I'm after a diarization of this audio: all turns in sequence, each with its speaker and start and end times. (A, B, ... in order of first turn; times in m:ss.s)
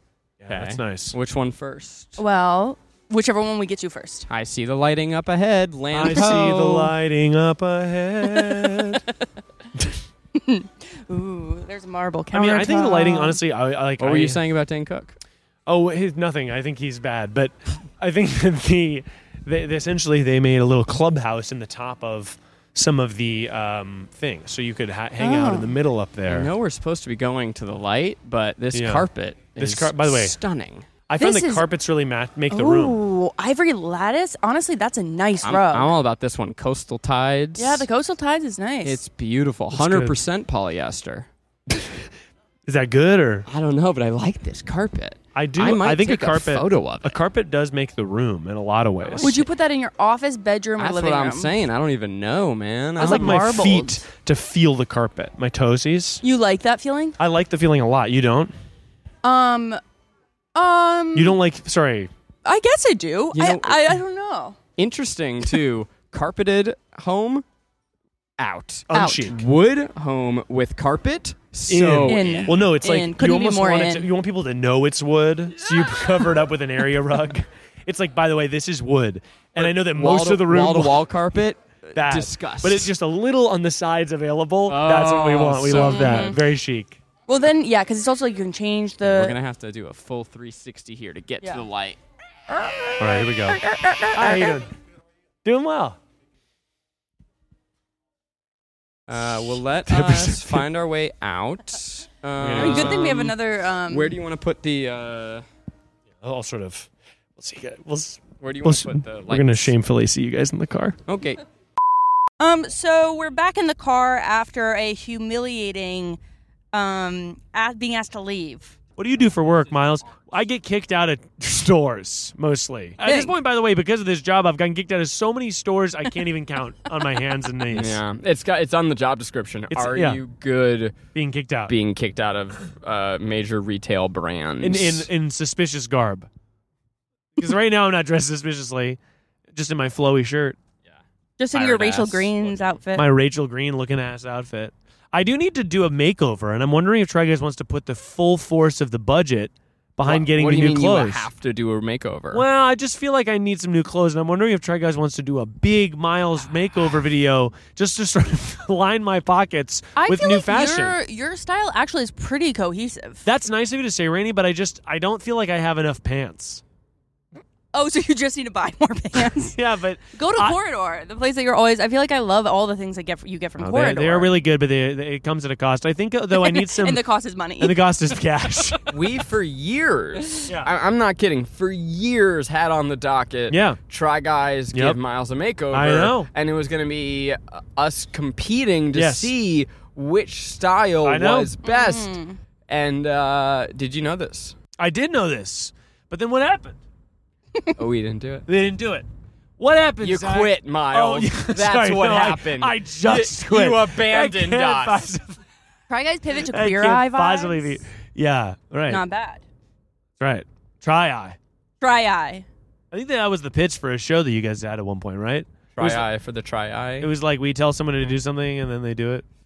0:00.4-0:01.2 A
0:00.5-0:02.2 B
0:02.2-0:04.3 C
0:04.3-0:06.9 B
0:05.9-0:09.0 A
0:08.5-0:08.8 C
0:10.4-0:13.4 C
0:12.3-0:14.4 A
0:14.0-0:15.2 B
0:15.7-0:26.5 A
0:25.2-0:25.8 C
0:26.3-0:30.9 B
0:28.7-0:29.1 A
0:29.6-0:30.4 A
0:31.1-0:33.0 A
0:31.2-0:31.7 C
0:32.5-0:35.9 C
0:35.4-0:37.9 B
0:37.6-0:39.0 C
0:38.8-0:41.3 B
0:39.7-0:40.2 A
0:41.7-0:42.1 A
0:42.7-0:43.5 A
0:43.5-0:47.2 B
0:45.4-0:49.3 A
0:49.0-0:49.5 B
0:49.2-0:51.5 C
0:50.8-0:53.6 B
0:53.0-0:54.0 C
0:53.0-0:56.2 A
0:56.2-0:57.2 C
0:57.2-0:58.5 A
0:59.2-0:59.8 C
1:00.6-1:01.4 C
1:01.2-1:02.1 A
1:02.4-1:04.6 C
1:03.3-1:04.0 B
1:04.8-1:07.4 B
1:08.4-1:12.6 B
1:08.9-1:09.4 A
1:11.7-1:21.0 A
1:12.0-1:14.1 C
1:15.6-1:16.0 B
1:19.6-1:22.9 B
1:22.0-1:27.0 A
1:24.7-1:26.4 B
1:25.7-1:26.4 C
1:27.3-1:29.4 C
1:29.0-1:32.0 B
1:32.8-1:34.5 B
1:33.0-1:33.6 A
1:34.1-1:34.7 A
1:35.4-1:36.0 A
1:39.1-1:43.4 B
1:39.9-1:40.6 A
1:42.4-1:43.3 A
1:42.6-1:44.2 C
1:43.9-1:45.4 B
1:46.2-1:51.0 A
1:48.4-1:49.7 B
1:51.1-1:51.4 B
1:52.4-1:56.2 C
1:56.7-1:58.8 C
1:59.0-2:08.0 A
2:03.0-2:03.4 C
2:07.7-2:11.0 B
2:09.7-2:10.2 A
2:11.2-2:11.7 A
2:11.7-2:15.1 B
2:14.6-2:16.3 A
2:17.4-2:19.0 A
2:19.5-2:20.6 A
2:21.4-2:23.1 C
2:21.5-2:22.8 B
2:23.0-2:31.3 A
2:30.1-2:32.4 B
2:32.3-2:41.0 A
2:40.0-2:43.3 C
2:43.2-2:46.6 A
2:47.7-2:49.6 C
2:49.4-2:50.6 A
2:50.1-2:54.4 C
2:53.6-2:57.0 A
2:56.3-2:57.8 C
2:57.6-2:59.0 A
2:58.9-3:12.2 B
3:03.5-3:03.8 A
3:05.7-3:06.3 A
3:08.9-3:09.3 A
3:11.0-3:11.5 A
3:11.6-3:12.4 C
3:12.7-3:14.6 B
3:14.8-3:16.8 A
3:17.8-3:18.5 B
3:18.5-3:19.1 A
3:19.6-3:25.4 A
3:20.0-3:25.0 B
3:25.9-3:27.8 C
3:26.4-3:29.0 A
3:28.9-3:29.4 C
3:30.2-3:31.4 A
3:31.8-3:32.5 C
3:32.9-3:36.1 A
3:35.7-3:37.1 B
3:37.0-3:39.2 A